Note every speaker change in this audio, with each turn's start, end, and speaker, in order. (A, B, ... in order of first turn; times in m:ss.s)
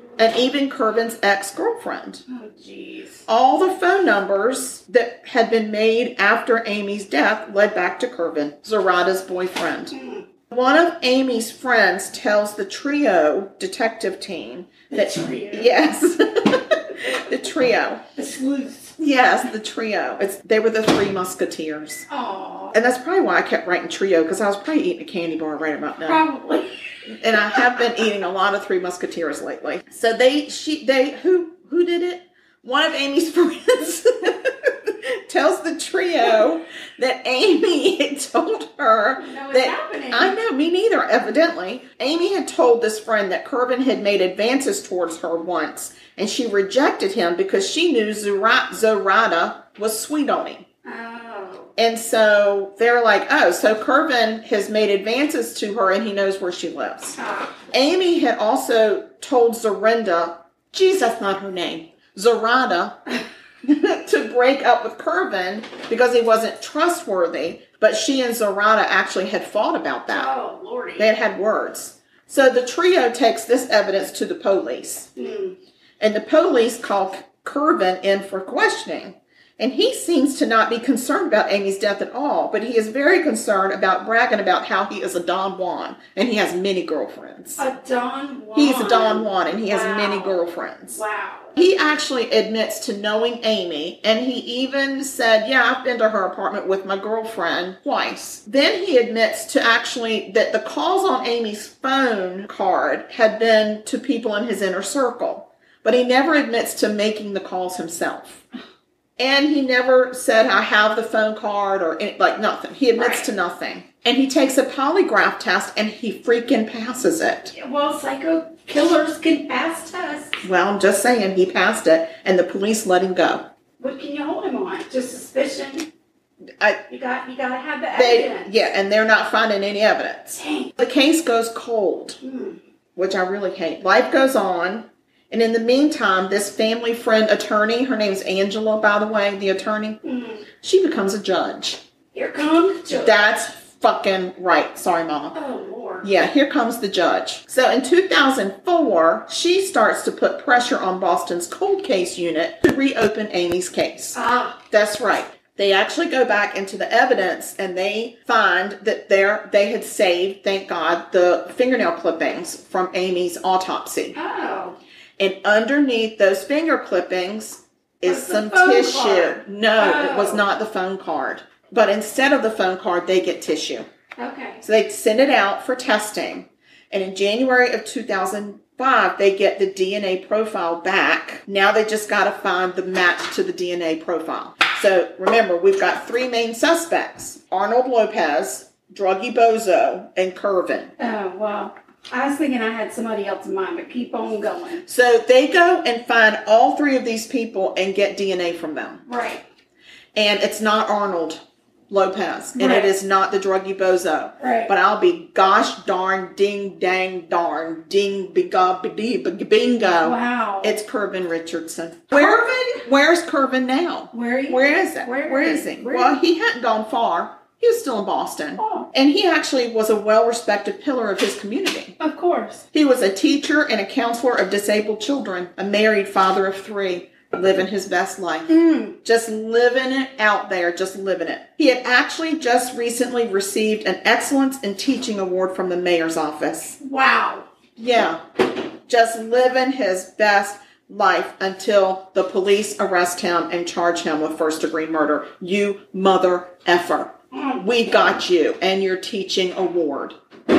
0:00.2-0:02.2 A
0:02.3-0:03.2 B
0:03.3-0:09.9 A
0:09.9-0:10.2 B
0:10.5-0:18.0 A
0:14.9-0:15.7 B
0:18.2-0:19.0 B
0:19.0-0:22.1 A
0:22.1-0:22.8 B
0:22.7-0:26.2 A
0:26.0-0:26.8 B
0:27.1-0:50.6 A
0:39.2-0:40.4 B
0:50.8-0:51.7 B
0:51.8-0:57.2 A
0:57.2-0:57.6 B
0:57.7-1:03.0 A
1:03.6-1:10.3 A
1:10.1-1:11.1 B
1:11.0-1:15.1 A
1:15.2-1:15.6 B
1:16.0-1:27.6 A
1:27.6-1:31.6 B
1:28.6-1:31.0 A
1:31.6-1:48.4 A
1:49.2-1:57.5 A
1:53.0-1:53.3 B
1:57.5-2:00.4 B
2:00.4-2:03.5 A
2:03.8-2:05.9 B
2:06.9-2:08.7 B
2:07.9-2:12.2 A
2:10.4-2:10.7 B
2:12.2-2:12.6 B
2:13.0-2:20.0 A
2:20.0-2:20.4 B
2:20.6-2:21.8 A
2:22.1-2:23.1 B
2:22.9-2:25.4 A
2:25.3-2:26.1 B
2:26.0-2:34.2 A
2:34.2-2:34.6 B
2:34.7-2:44.2 A
2:44.2-2:44.8 B
2:45.2-2:53.9 A
2:48.0-2:50.4 B
2:54.2-2:54.6 B
2:54.6-3:10.9 A
3:11.0-3:14.8 B
3:14.9-3:19.0 A
3:19.1-3:19.4 B
3:20.2-3:42.0 A
3:22.6-3:22.9 B
3:24.4-3:24.7 B
3:30.0-3:30.8 B
3:32.1-3:32.8 B
3:34.1-3:36.2 B
3:38.6-3:38.9 B
3:42.0-3:42.6 B
3:42.7-3:56.8 A
3:48.5-3:49.0 B
3:56.8-3:57.5 B
3:57.8-3:58.2 A
3:58.9-4:10.2 A
4:07.3-4:08.1 B